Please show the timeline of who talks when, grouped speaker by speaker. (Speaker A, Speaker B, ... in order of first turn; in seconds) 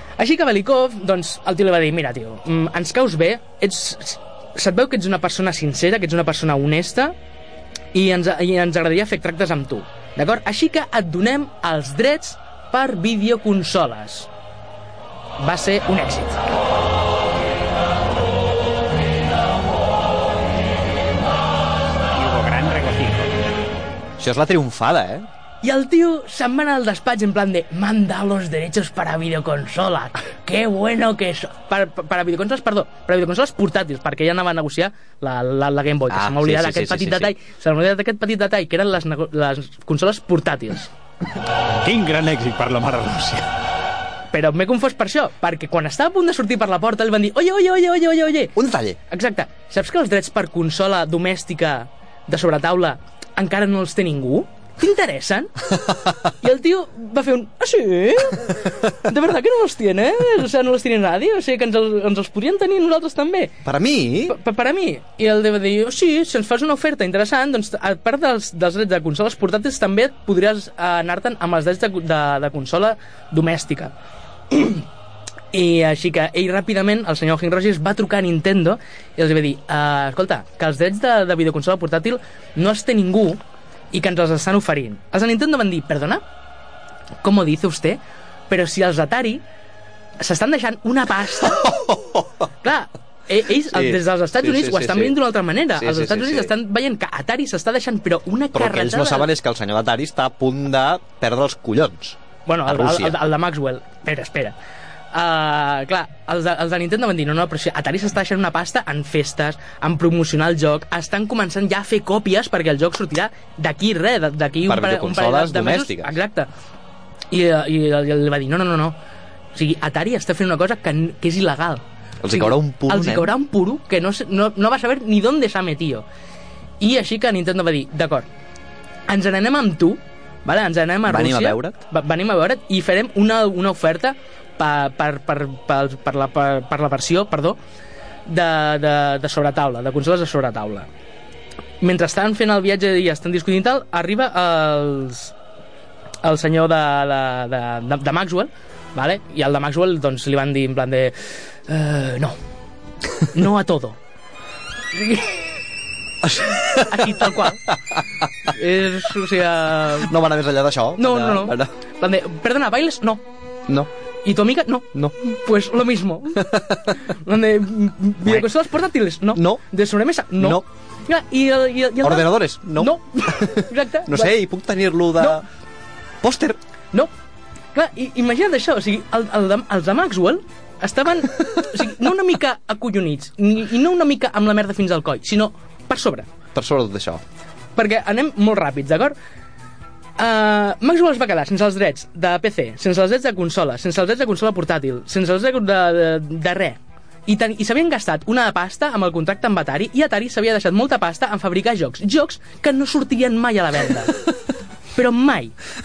Speaker A: 0.2-7.2, 7.9-14.3, 15.4-16.4, 25.6-40.9, 44.3-48.5, 49.1-55.6, 56.4-63.5, 64.3-73.9, 74.5-74.8, 75.5-83.4, 83.9-86.2, 87.2-89.4, 90.2-91.7, 92.6-99.3, 102.5-104.5, 105.1-116.5, 117.3-119.0, 119.5-126.0, 126.8-128.3, 129.1-137.6, 138.3-140.9, 141.8-145.3, 146.2-151.2, 151.7-152.4, 153.3-154.0, 154.9-155.3, 156.9-157.6, 158.5-160.1, 161.0-163.2, 164.2-174.3, 177.7-186.3, 187.8-189.2, 190.2-204.2, 205.0-205.6
Speaker B: 22.1-23.4, 41.8-43.5
Speaker C: 24.2-25.3, 36.1-37.3, 48.6-49.0, 63.6-64.4, 91.6-92.3, 93.7-95.2, 95.8-96.5, 98.5-103.2, 114.7-116.1, 122.2-123.3, 131.1-131.8, 156.2-157.2, 160.1-161.7, 166.5-166.9, 169.3-169.6, 170.4-170.7, 172.0-175.4, 176.2-176.6, 186.6-187.2